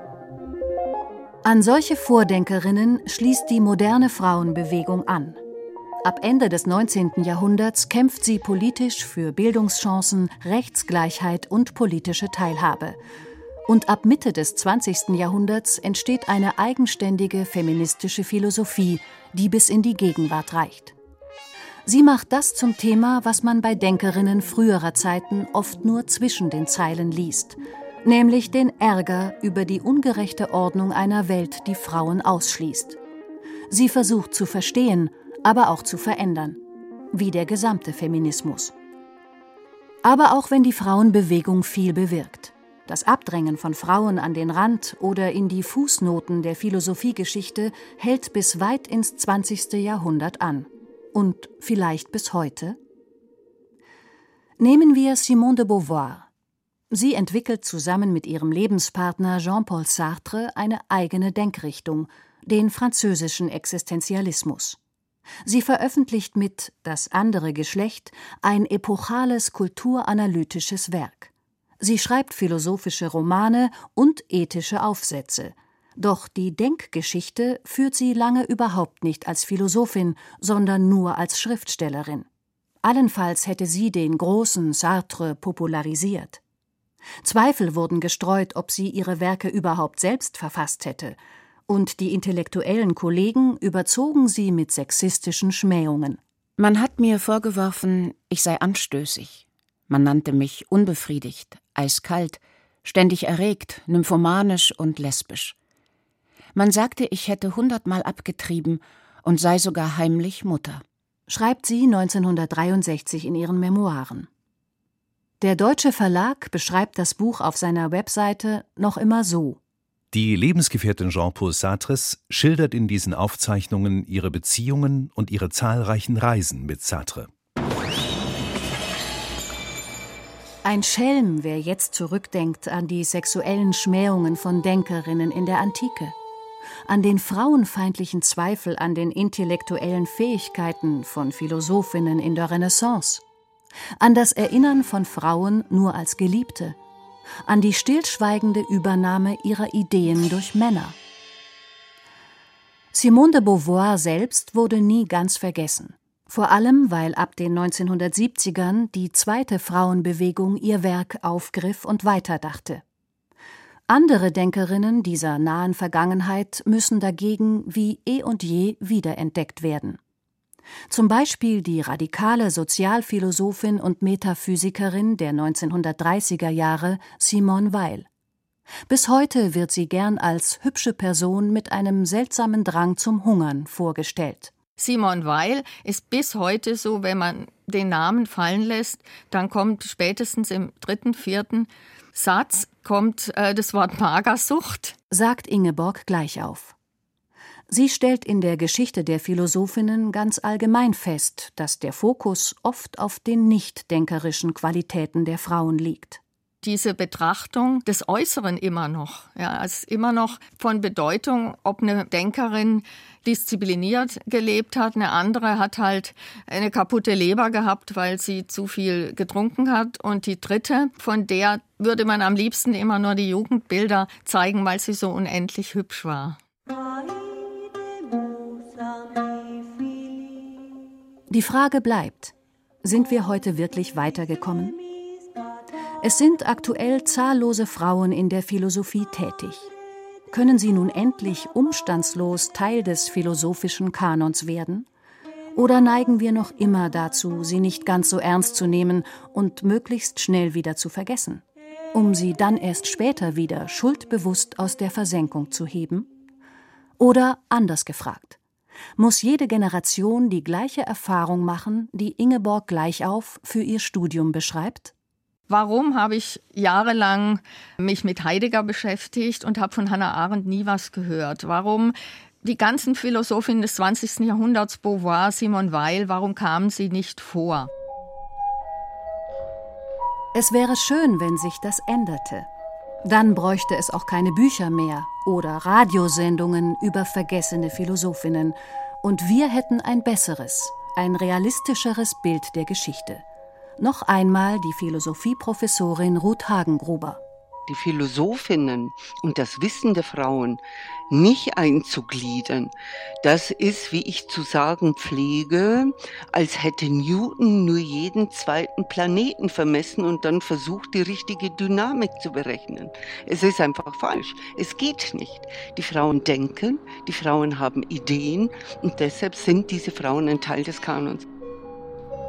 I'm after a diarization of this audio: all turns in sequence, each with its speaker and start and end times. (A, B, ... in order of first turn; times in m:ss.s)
0:01.4-0:05.4 A
0:06.0-0:13.0 A
0:13.7-0:21.0 A
0:21.9-0:33.0 A
0:33.7-0:36.6 A
0:37.1-0:38.7 A
0:40.0-0:52.8 A
0:54.6-0:56.3 A
0:56.9-1:04.8 A
1:05.4-1:22.3 A
1:22.8-1:26.4 A
1:27.2-1:31.2 A
1:31.7-1:36.2 A
1:36.6-1:45.6 B
1:46.6-1:50.8 B
1:51.3-1:54.3 A
1:55.4-1:59.6 A
2:00.1-2:07.3 C
2:10.6-2:16.2 A
2:16.9-2:23.2 A
2:24.0-2:26.8 A
2:27.5-2:31.0 A
2:32.9-2:42.8 A
2:43.9-2:50.0 A
2:50.9-2:58.1 A
2:58.9-3:04.5 A
3:04.8-3:15.0 D
3:15.1-3:16.8 A
3:17.7-3:26.2 A
3:26.6-3:46.4 D
3:51.3-3:54.8 A
3:56.0-3:59.7 A
4:00.3-4:04.9 A
4:05.6-4:16.1 A
4:17.0-4:18.4 A
4:19.0-4:24.9 A
4:25.5-4:37.7 D
4:40.4-4:42.5 A
4:43.0-4:53.2 A
4:53.8-4:57.2 A
4:57.7-5:00.6 E
5:01.1-5:02.7 E
5:03.2-5:21.2 E